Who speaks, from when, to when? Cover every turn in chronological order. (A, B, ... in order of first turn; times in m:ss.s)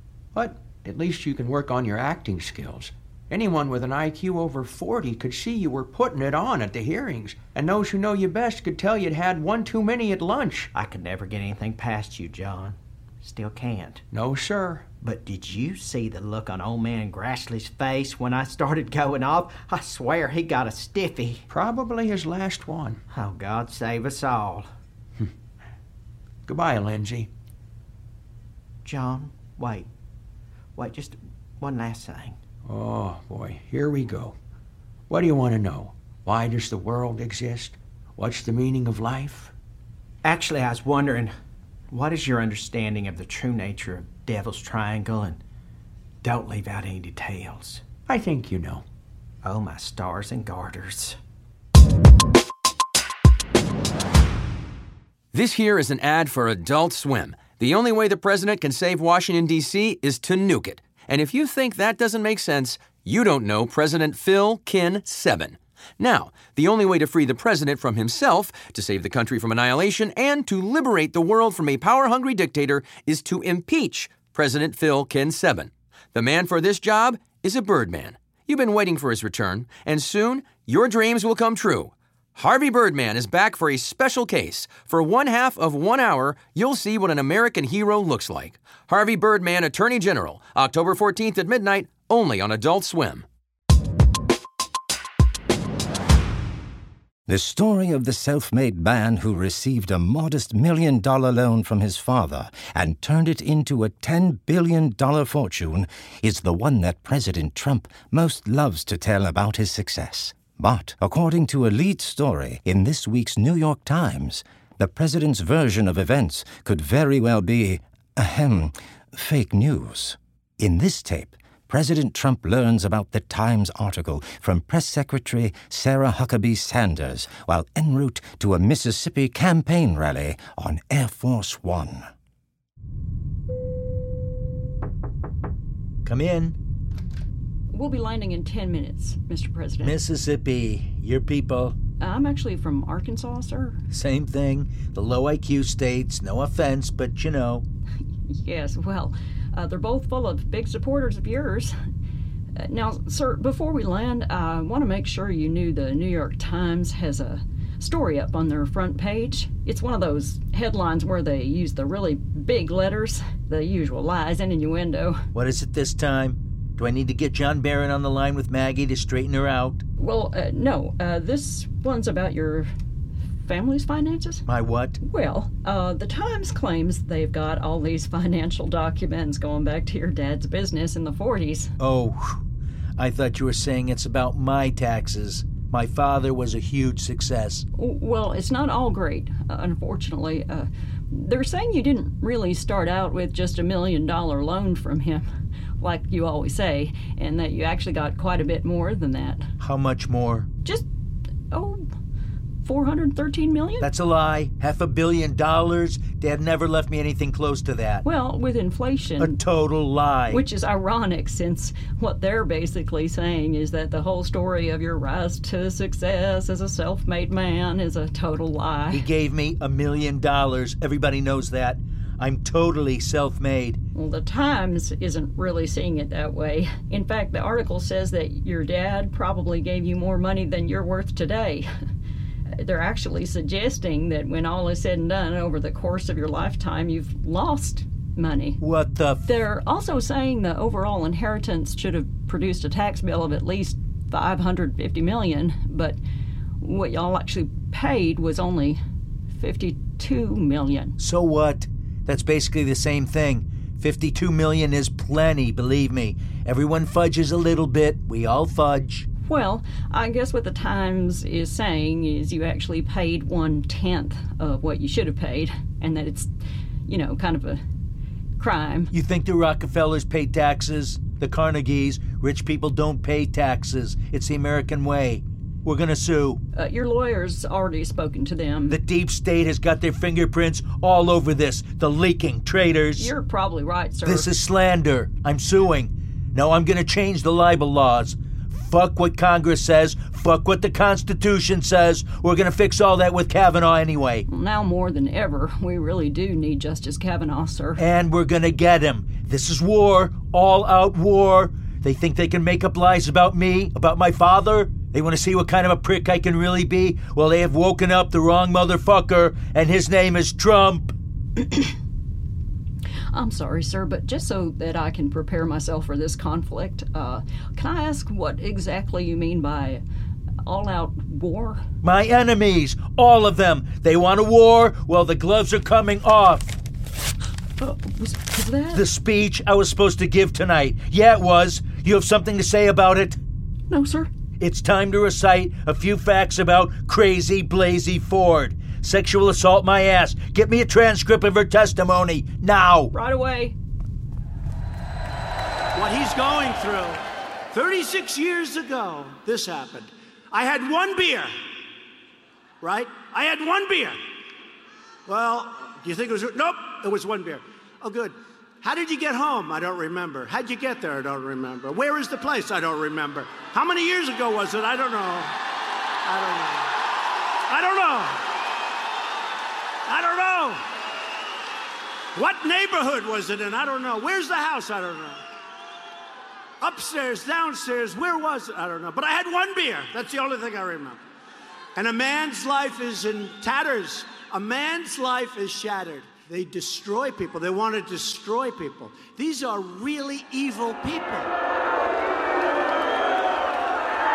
0:00.3-0:10.7 A
0:10.7-0:14.0 B
0:14.1-0:14.9 A
0:15.0-0:21.4 B
0:21.5-0:23.0 A
0:23.1-0:24.7 B
0:26.5-0:27.3 A
0:28.8-0:29.9 B
0:30.8-0:32.4 B
0:32.6-0:34.4 A
0:35.1-0:39.5 A
0:40.2-0:41.3 B
0:41.9-0:45.4 B
0:46.2-0:47.8 B
0:48.1-0:48.8 A
0:49.4-0:51.2 B
0:55.3-1:33.2 C
1:37.3-2:12.1 D
2:16.0-2:16.6 E
2:17.7-2:20.0 F
2:19.8-2:21.8 E
2:22.0-2:23.8 F
2:23.9-2:27.6 E
2:28.3-2:31.8 F
2:32.6-2:45.2 F
2:45.3-2:49.8 E
2:50.0-2:52.7 F
2:53.4-2:54.4 F
2:54.4-2:55.0 E
2:55.0-3:01.7 F
3:01.8-3:02.4 E
3:03.0-3:07.6 E
3:07.8-3:15.2 F
3:15.8-3:19.5 F
3:19.6-3:20.5 E
3:21.5-3:21.9 F
3:22.6-3:23.9 F
3:23.8-3:28.0 E
3:28.0-3:29.4 F
3:29.2-3:30.4 E
3:30.3-3:39.1 F
3:38.9-3:43.8 E
3:43.9-3:51.7 F
3:52.6-3:58.6 F
3:58.6-3:59.3 E
3:59.2-4:06.0 F
4:06.6-4:08.8 F
4:09.3-4:11.0 F
4:11.0-4:19.1 E
4:19.3-4:26.3 F
4:26.9-4:27.6 F
4:28.4-4:28.9 F
4:28.9-4:36.4 E
4:36.5-4:38.8 F
4:38.7-4:43.1 E
4:43.0-4:44.3 F
4:44.0-4:54.2 E
4:54.3-4:57.8 F
4:57.8-5:10.9 E
5:13.1-5:19.8 F
5:20.4-5:21.6 F
5:21.8-5:26.5 E
5:27.6-5:28.8 F
5:28.7-5:33.2 E
5:33.7-5:34.1 F
5:34.4-5:42.9 E
5:42.9-5:43.5 F
5:45.7-5:51.3 G
5:52.6-5:54.0 G
5:55.0-6:05.3 G
6:06.0-6:06.7 G
6:07.5-6:08.2 G
6:09.9-6:10.6 G
6:12.1-6:15.2 G
6:16.6-6:21.0 G
6:21.8-6:31.3 G